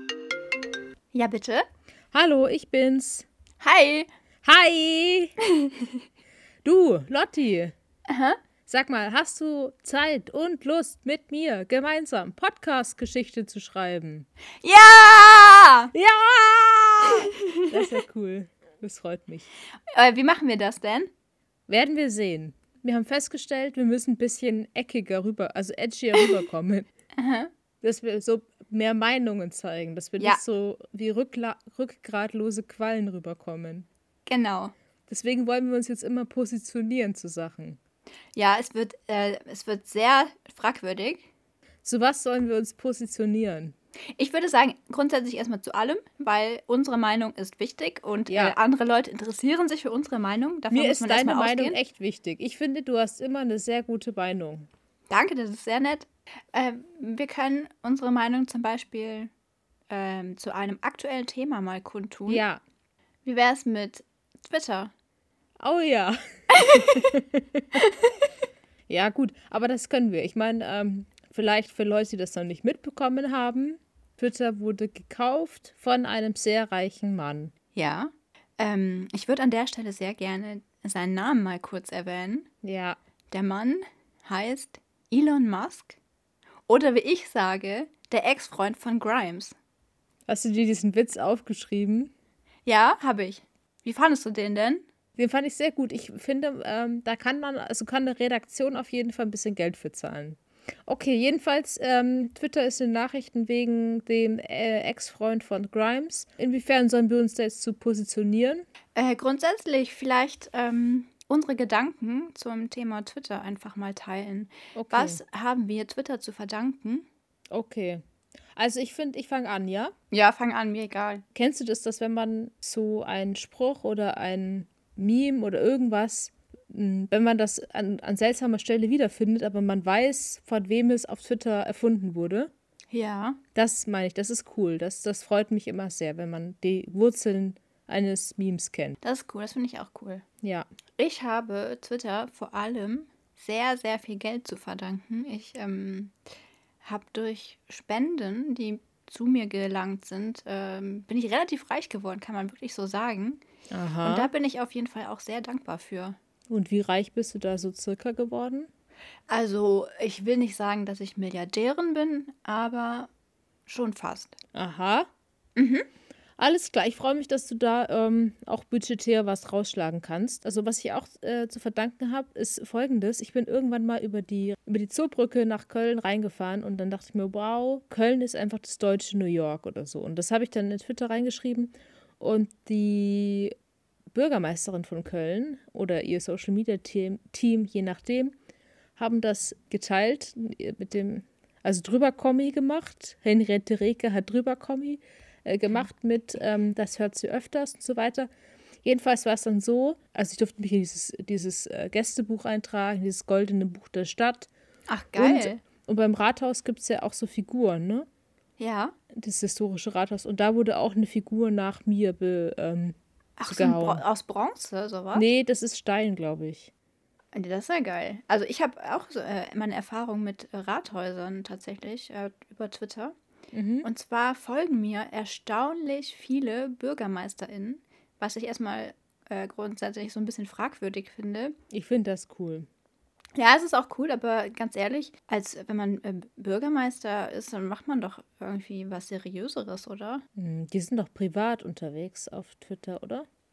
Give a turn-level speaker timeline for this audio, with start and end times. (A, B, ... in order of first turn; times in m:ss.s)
0:01.1-0:01.6 A
0:02.1-0:03.2 B
0:03.6-0:04.1 A
0:04.4-0:05.3 B
0:05.6-0:05.9 A
0:06.6-0:07.7 B
0:08.1-0:08.4 A
0:08.7-0:14.3 B
0:14.6-0:15.9 A
0:15.9-0:19.5 B
0:19.9-0:21.1 A
0:21.7-0:26.9 B
0:27.2-0:27.5 A
0:27.8-0:33.9 B
0:34.3-0:34.7 A
0:35.1-0:37.8 B
0:38.3-0:41.3 A
0:41.8-0:43.7 B
0:44.2-0:51.8 A
0:48.3-0:48.6 B
0:50.7-0:54.7 B
0:55.1-0:59.3 A
0:59.9-1:02.4 A
1:02.3-1:02.6 B
1:03.2-1:04.9 A
1:05.6-1:07.7 B
1:06.6-1:07.0 A
1:07.8-1:08.1 A
1:08.9-1:17.5 B
1:17.8-1:22.5 A
1:22.6-1:23.0 B
1:23.3-1:26.0 A
1:26.7-1:29.5 A
1:30.3-1:32.1 B
1:32.7-1:34.8 A
1:35.2-1:48.7 B
1:48.9-1:57.0 A
1:54.8-1:55.2 B
1:57.5-1:58.0 B
1:58.6-1:59.9 B
2:00.1-2:01.2 A
2:01.3-2:12.5 B
2:12.9-2:13.4 A
2:13.6-2:19.0 B
2:19.0-2:20.2 A
2:20.4-2:20.7 B
2:21.0-2:26.1 A
2:26.8-2:33.4 A
2:33.7-2:34.3 B
2:34.0-2:36.2 A
2:36.5-2:38.7 B
2:39.3-2:43.1 A
2:43.7-2:44.4 A
2:44.6-2:45.1 B
2:45.6-2:45.8 A
2:46.4-3:03.5 B
3:04.1-3:08.3 B
3:09.0-3:18.3 B
3:18.8-3:24.5 B
3:24.9-3:25.6 A
3:25.2-3:28.1 B
3:28.6-3:28.9 A
3:29.1-3:34.0 B
3:33.4-3:35.3 A
3:35.1-3:36.7 B
3:37.3-3:43.2 A
3:43.5-3:43.9 B
3:43.8-3:51.5 A
3:51.7-3:52.7 B
3:53.4-4:00.2 A
4:00.4-4:03.3 B